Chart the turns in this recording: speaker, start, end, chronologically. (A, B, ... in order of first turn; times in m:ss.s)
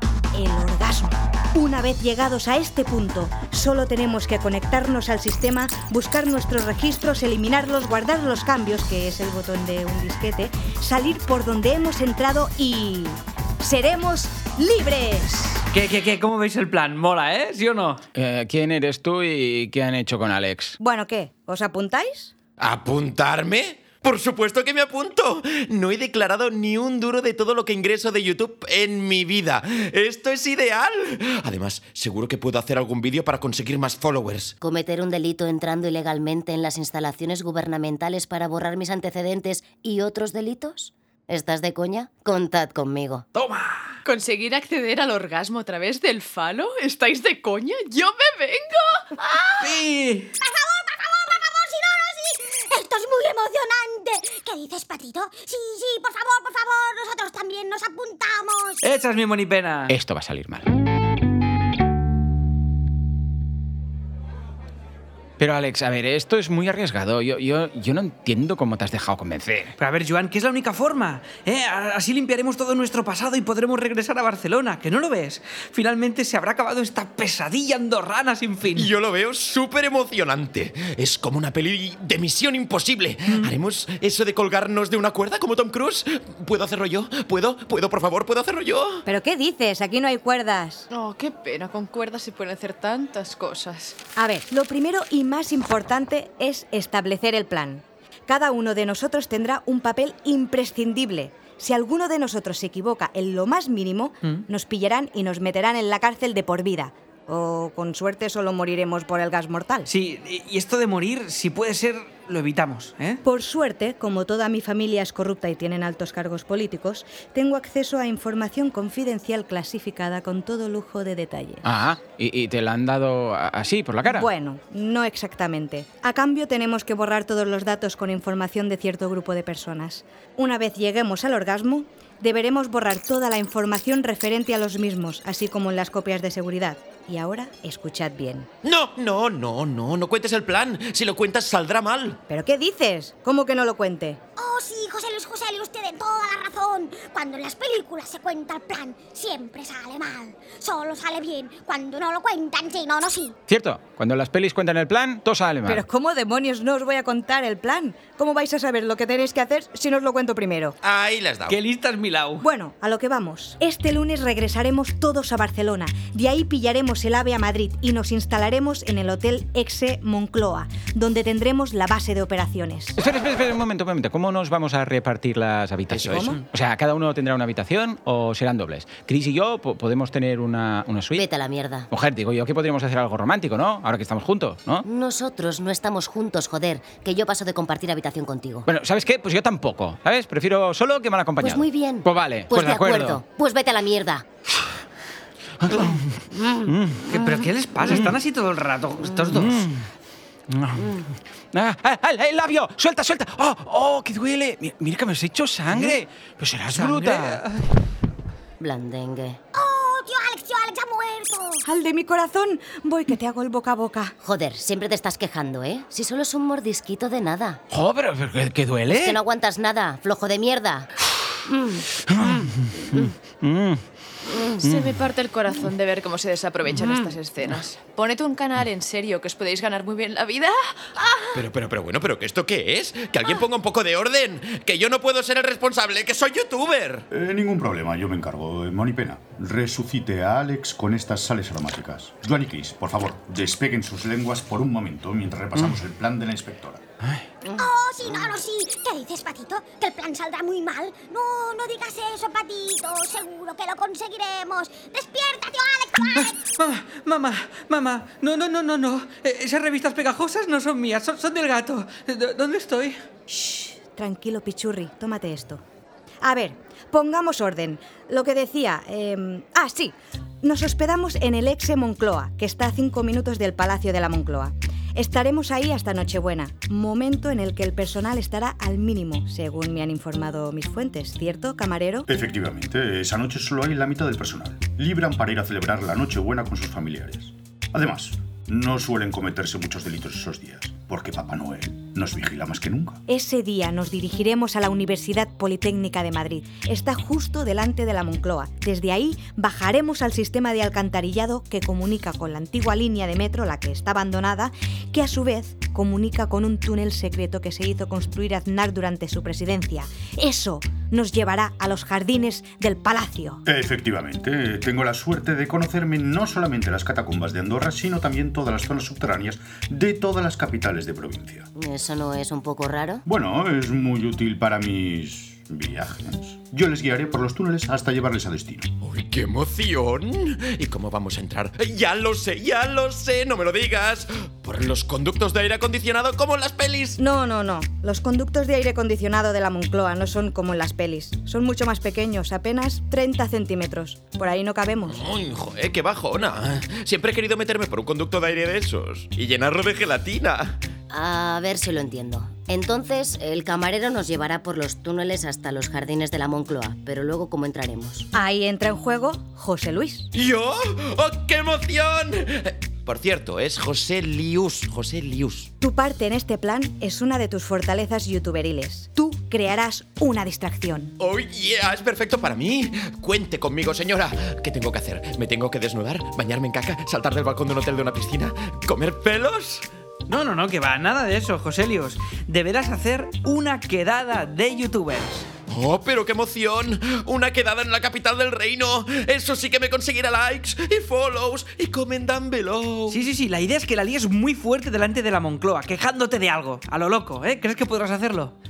0:00.3-0:15.6 A
0:15.7-0:18.0 B
0:18.1-0:20.8 C
0:20.8-0:22.3 A
0:22.6-0:34.5 D
0:34.6-0:43.2 E
0:43.4-0:44.0 B
0:44.0-0:49.6 F
0:49.6-0:50.4 B
0:50.4-0:58.9 G
0:58.8-0:59.9 B
0:59.9-1:00.7 C
1:05.4-1:09.7 C
1:09.8-1:18.9 B
1:18.7-1:29.0 D
1:29.1-1:30.9 A
1:30.9-1:34.0 F
1:34.2-1:49.9 A
1:49.9-1:53.2 B
1:53.2-2:01.6 A
2:01.6-2:04.3 C
2:04.0-2:18.5 A
2:18.6-2:22.2 D
2:22.3-2:24.2 A
2:24.4-2:33.4 G
2:33.5-2:35.8 C
2:35.7-2:40.8 A
2:40.8-2:41.6 D
2:41.5-2:42.4 B
2:42.4-2:53.0 A
2:53.0-3:01.2 C
2:55.9-2:56.3 D
2:56.1-2:56.4 A
3:01.2-3:01.9 E
3:01.9-3:04.8 C
3:04.8-3:08.7 E
3:08.7-3:13.2 C
3:11.4-3:14.2 E
3:15.6-3:17.2 C
3:17.1-3:19.7 B
3:17.8-3:18.1 C
3:19.3-3:19.9 C
3:20.5-3:27.4 C
3:25.7-3:26.0 B
3:26.7-3:27.6 B
3:28.6-3:29.4 E
3:29.5-3:31.6 G
3:31.6-3:34.2 A
3:34.2-3:37.6 E
3:37.7-3:39.2 C
3:38.9-3:40.9 E
3:42.1-3:43.8 C
3:44.3-3:51.4 F
3:44.6-3:45.0 C
3:51.3-3:57.1 D
3:57.1-4:06.8 H
4:07.6-4:16.4 G
4:16.2-4:23.0 B
4:23.3-4:25.6 A
4:26.2-4:42.1 A
4:42.1-4:53.0 H
4:53.1-5:13.4 A
5:13.4-5:21.5 H
5:21.6-5:23.0 E
5:23.0-5:28.7 H
5:28.8-5:37.0 D
5:37.0-5:45.0 A
5:44.9-5:50.6 D
5:50.9-5:58.1 E
5:58.1-6:00.1 A
6:00.1-6:05.5 D
6:05.6-6:11.0 A
6:11.0-6:19.7 D
6:20.1-6:25.2 B
6:25.5-6:33.0 D
6:32.9-6:38.3 B